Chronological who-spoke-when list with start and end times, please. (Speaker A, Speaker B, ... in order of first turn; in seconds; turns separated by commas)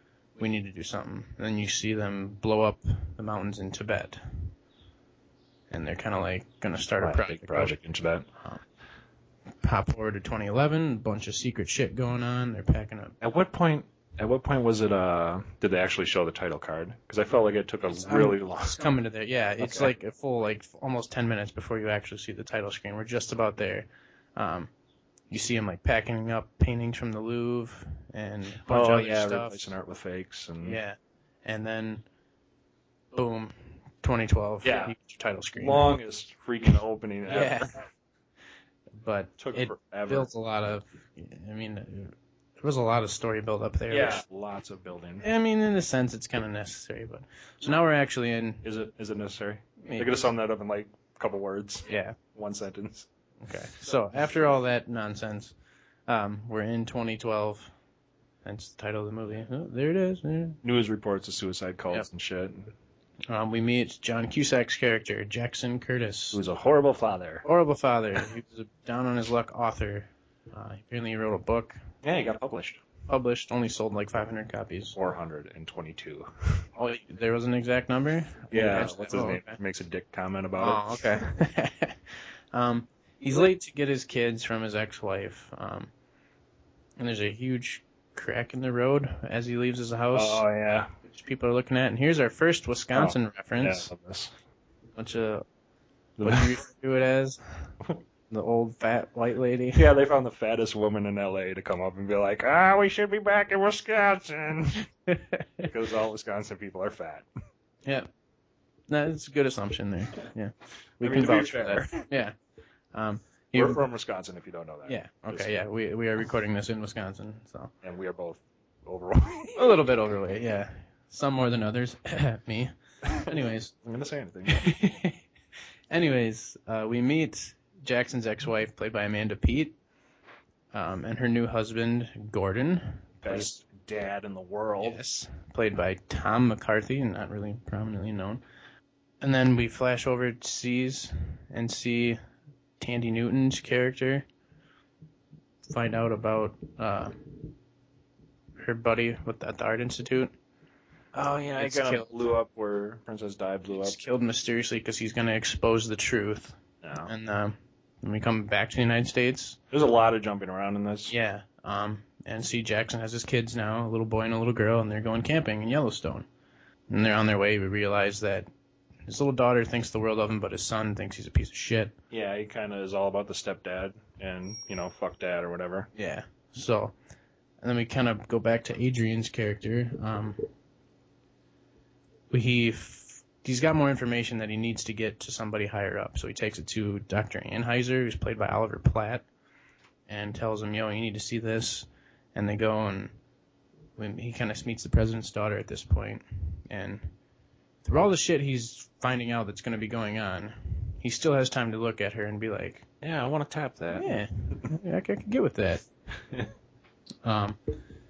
Speaker A: 0.4-4.5, Speaker A: 5.7-7.8, Speaker B: 7.0-8.2, Speaker A: 8.4-8.6, Speaker A: 9.6-13.2, Speaker B: 13.2-18.8, Speaker A: 17.9-24.7, Speaker B: 19.6-19.9, Speaker A: 25.3-29.7, Speaker B: 28.6-30.8, Speaker A: 30.6-32.0, Speaker A: 33.1-35.9, Speaker B: 34.6-34.9, Speaker B: 35.6-37.8, Speaker A: 37.3-37.8, Speaker A: 39.0-44.2, Speaker B: 39.4-40.3, Speaker B: 43.9-45.2, Speaker A: 45.2-48.6, Speaker B: 48.6-53.1, Speaker A: 49.8-50.2, Speaker A: 51.9-52.2, Speaker A: 53.4-55.5, Speaker A: 56.1-57.7, Speaker A: 58.4-60.6, Speaker B: 60.6-62.7, Speaker A: 63.3-66.4, Speaker B: 66.3-67.4, Speaker A: 67.4-71.8, Speaker B: 72.0-72.8, Speaker A: 73.1-75.0, Speaker B: 75.0-76.6, Speaker A: 76.8-79.6, Speaker B: 78.5-80.8, Speaker A: 80.6-82.0, Speaker A: 82.5-85.9, Speaker A: 87.0-90.4, Speaker B: 90.1-90.9, Speaker A: 91.0-93.9, Speaker B: 92.9-94.3, Speaker A: 95.0-95.4, Speaker B: 96.2-96.6, Speaker A: 96.2-97.7, Speaker A: 98.3-99.9, Speaker B: 99.8-104.8, Speaker A: 105.1-105.7, Speaker B: 105.6-107.3, Speaker A: 108.9-112.3, Speaker B: 111.0-112.0, Speaker A: 112.9-113.8, Speaker B: 113.5-115.5, Speaker A: 114.8-117.7, Speaker B: 117.8-119.6, Speaker A: 119.5-123.7, Speaker B: 123.8-124.6, Speaker A: 124.5-125.2, Speaker A: 125.9-129.7, Speaker A: 130.7-133.5, Speaker B: 133.2-135.0, Speaker A: 134.8-138.4, Speaker A: 139.2-142.2, Speaker A: 142.8-144.2, Speaker A: 145.7-147.5, Speaker A: 148.6-150.3, Speaker B: 151.1-154.0, Speaker A: 151.6-152.1, Speaker A: 153.7-159.6, Speaker B: 156.8-157.1, Speaker B: 159.7-161.1, Speaker A: 161.1-166.3, Speaker A: 166.9-168.5, Speaker A: 169.1-171.9, Speaker B: 172.1-175.9, Speaker A: 175.9-176.9, Speaker A: 177.6-180.5, Speaker A: 182.3-189.2, Speaker A: 190.1-193.1, Speaker A: 194.0-197.1, Speaker A: 197.8-202.8, Speaker B: 203.0-204.1, Speaker A: 203.9-205.9, Speaker A: 207.2-207.6